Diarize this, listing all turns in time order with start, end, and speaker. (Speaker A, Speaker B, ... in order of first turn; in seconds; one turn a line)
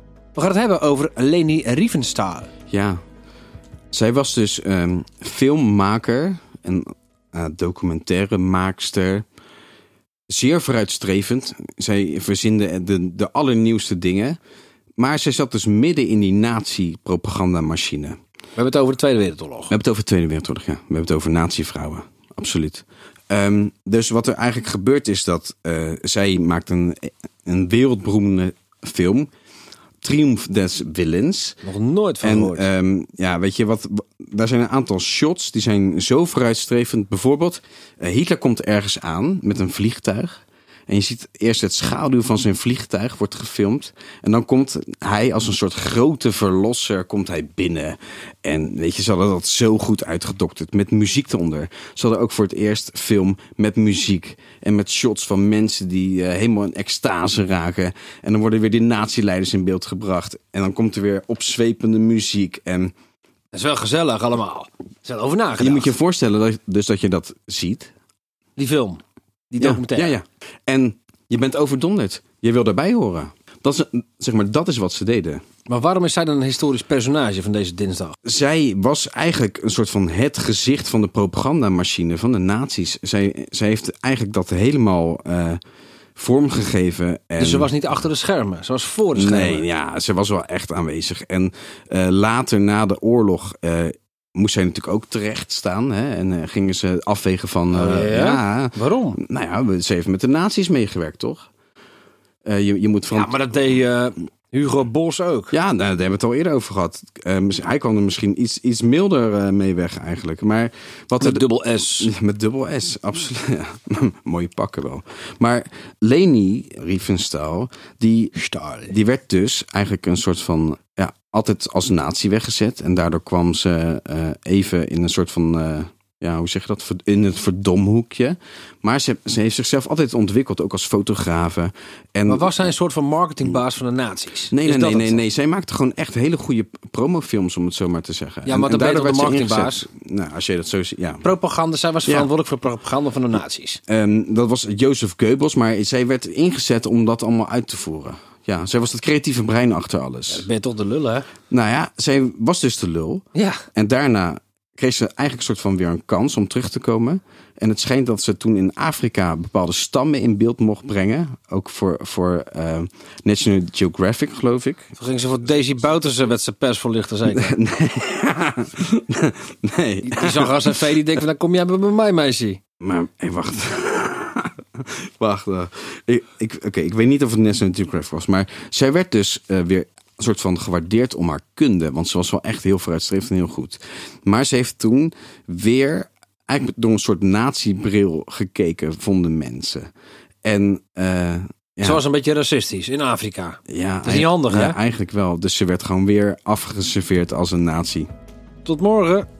Speaker A: 0.3-2.5
Speaker B: 2.7-3.0
Speaker B: 3.9-9.2
Speaker B: 10.3-14.4
Speaker B: 15.0-18.1
Speaker A: 18.6-19.7
Speaker B: 19.7-29.3
Speaker B: 30.0-31.6
Speaker A: 31.6-32.7
Speaker B: 32.2-62.9
Speaker A: 63.5-65.9
Speaker B: 65.6-67.9
Speaker A: 68.6-70.2
Speaker B: 69.6-75.4
Speaker A: 75.7-78.2
Speaker B: 78.2-85.6
Speaker B: 86.2-87.7
Speaker A: 87.4-89.7
Speaker B: 89.1-101.5
Speaker A: 97.7-99.2
Speaker B: 102.4-103.6
Speaker A: 103.1-105.5
Speaker B: 105.5-118.3
Speaker A: 111.2-112.1
Speaker A: 118.3-118.9
Speaker B: 118.9-132.5
Speaker A: 132.3-135.2
Speaker B: 134.5-141.3
Speaker A: 138.4-139.8
Speaker A: 141.2-143.8
Speaker B: 143.9-150.4
Speaker A: 150.3-151.3
Speaker B: 151.5-164.9
Speaker A: 153.3-153.6
Speaker A: 165.0-167.6
Speaker B: 167.3-171.0
Speaker A: 170.0-172.6
Speaker B: 172.8-189.9
Speaker B: 190.4-192.0
Speaker A: 191.8-194.8
Speaker B: 193.7-198.1
Speaker A: 198.6-199.3